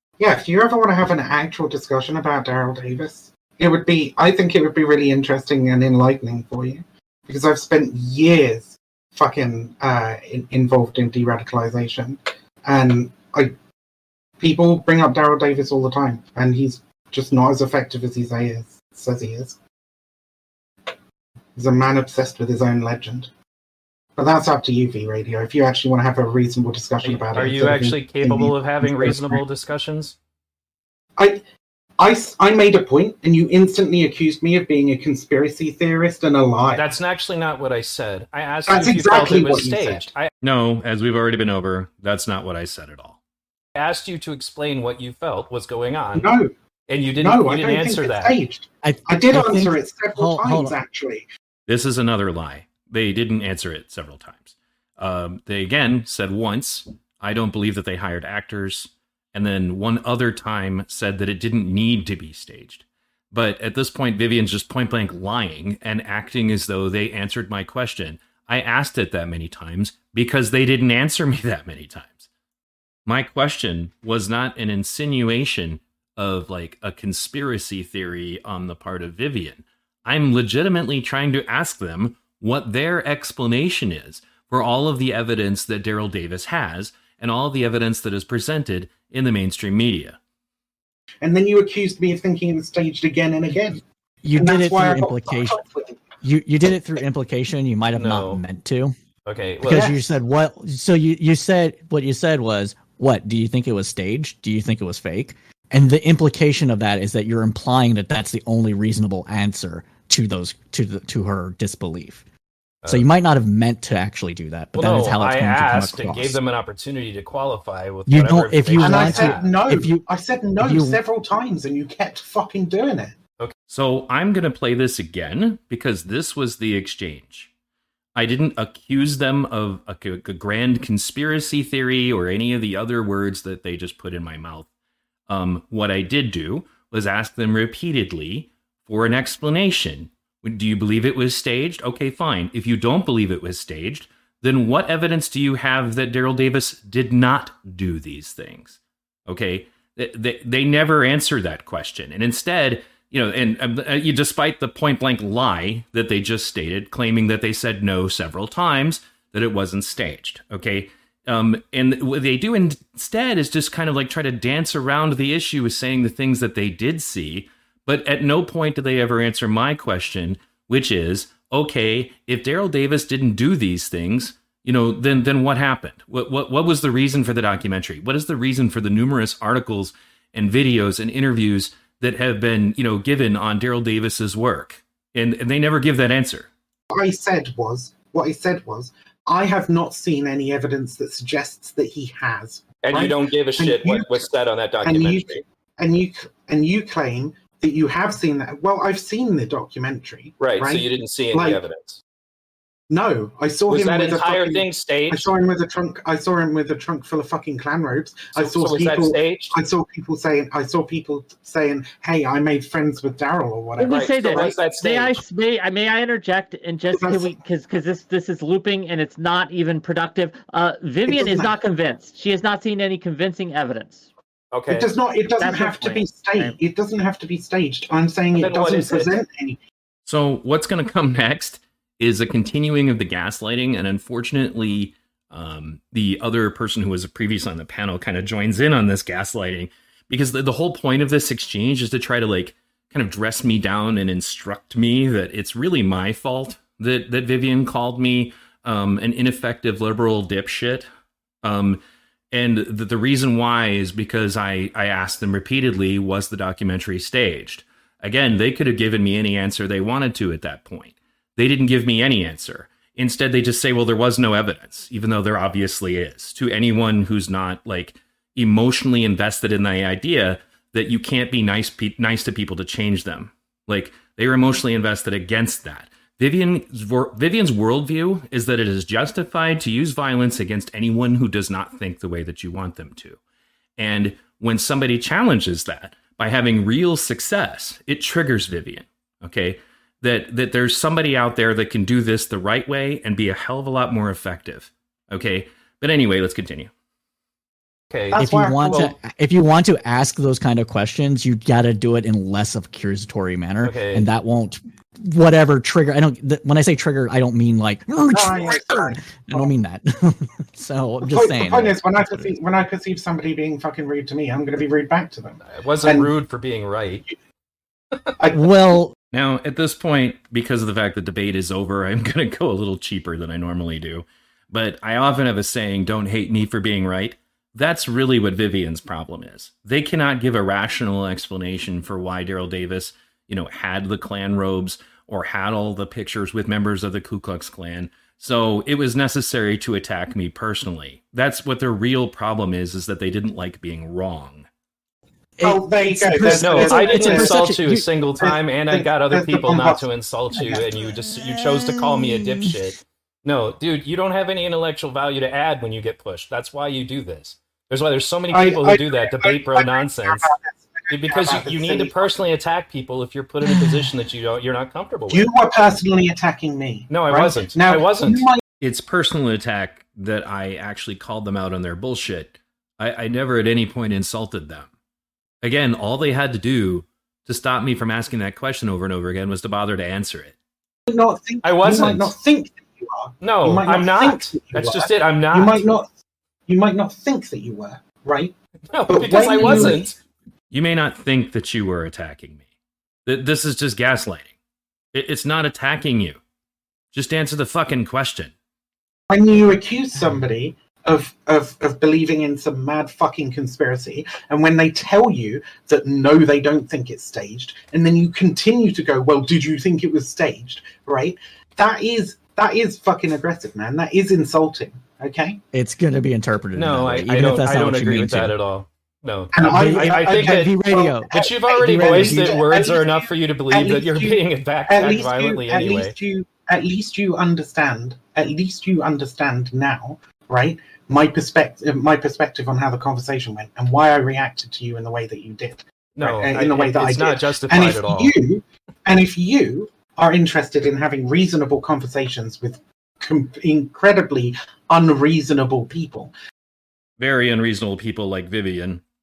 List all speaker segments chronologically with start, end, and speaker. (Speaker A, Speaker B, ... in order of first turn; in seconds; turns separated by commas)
Speaker A: 0.2-13.5, Speaker A: 14.4-19.6, Speaker A: 21.6-23.3, Speaker A: 24.1-29.4, Speaker B: 27.0-30.1, Speaker A: 31.2-31.4, Speaker A: 32.0-36.9, Speaker B: 36.7-40.3, Speaker A: 38.6-40.1, Speaker C: 40.4-43.2, Speaker B: 43.7-46.3, Speaker A: 46.1-46.5, Speaker B: 46.9-48.4, Speaker A: 47.2-51.3, Speaker D: 48.8-50.8, Speaker C: 51.7-72.3, Speaker C: 73.0-90.2, Speaker A: 91.2-93.8, Speaker D: 94.2-95.6, Speaker A: 94.4-96.0, Speaker D: 96.2-98.9, Speaker B: 97.9-98.4, Speaker B: 99.2-99.9, Speaker D: 99.7-112.2, Speaker A: 99.7-100.2, Speaker B: 112.8-113.1, Speaker D: 112.9-116.4, Speaker B: 114.7-119.5, Speaker D: 118.1-120.0, Speaker A: 118.8-123.2, Speaker D: 120.6-121.0, Speaker C: 123.7-127.5, Speaker C: 128.1-134.7, Speaker C: 135.3-186.5, Speaker A: 186.9-194.3, Speaker B: 192.8-195.4, Speaker A: 194.8-201.6, Speaker B: 200.4-202.0, Speaker A: 202.9-214.6, Speaker B: 203.7-205.3, Speaker B: 208.3-209.5, Speaker B: 213.8-215.2, Speaker E: 213.8-224.1, Speaker A: 216.9-217.4, Speaker A: 221.0-221.6, Speaker B: 224.5-224.9, Speaker A: 224.7-229.6, Speaker E: 225.4-226.6, Speaker B: 228.3-229.1, Speaker C: 230.1-250.8, Speaker C: 251.4-283.2, Speaker C: 283.8-296.7, Speaker B: 297.9-298.9, Speaker A: 298.1-298.9, Speaker D: 298.1-312.2, Speaker B: 303.6-304.1, Speaker A: 308.1-309.5, Speaker A: 311.0-316.1, Speaker B: 315.4-317.1, Speaker A: 318.2-318.8, Speaker D: 318.3-318.9, Speaker C: 319.1-344.5, Speaker D: 345.4-347.9, Speaker A: 345.4-350.6, Speaker B: 346.3-360.3, Speaker D: 351.1-352.5, Speaker A: 358.3-362.1, Speaker B: 360.9-365.3, Speaker A: 365.1-368.4, Speaker B: 366.9-368.3, Speaker C: 368.6-374.7, Speaker C: 375.4-380.4, Speaker A: 380.9-385.9, Speaker B: 381.4-382.1, Speaker B: 383.2-385.6, Speaker A: 386.5-388.3, Speaker B: 388.7-389.9, Speaker A: 388.9-389.9, Speaker D: 389.2-389.8, Speaker C: 390.5-392.4, Speaker C: 393.1-394.3, Speaker C: 394.9-396.2, Speaker C: 396.9-398.3, Speaker A: 399.1-415.4, Speaker D: 415.5-418.4, Speaker B: 416.5-420.5, Speaker A: 419.3-446.1, Speaker D: 419.4-422.4, Speaker B: 421.1-425.9, Speaker B: 435.9-438.1, Speaker C: 447.0-448.8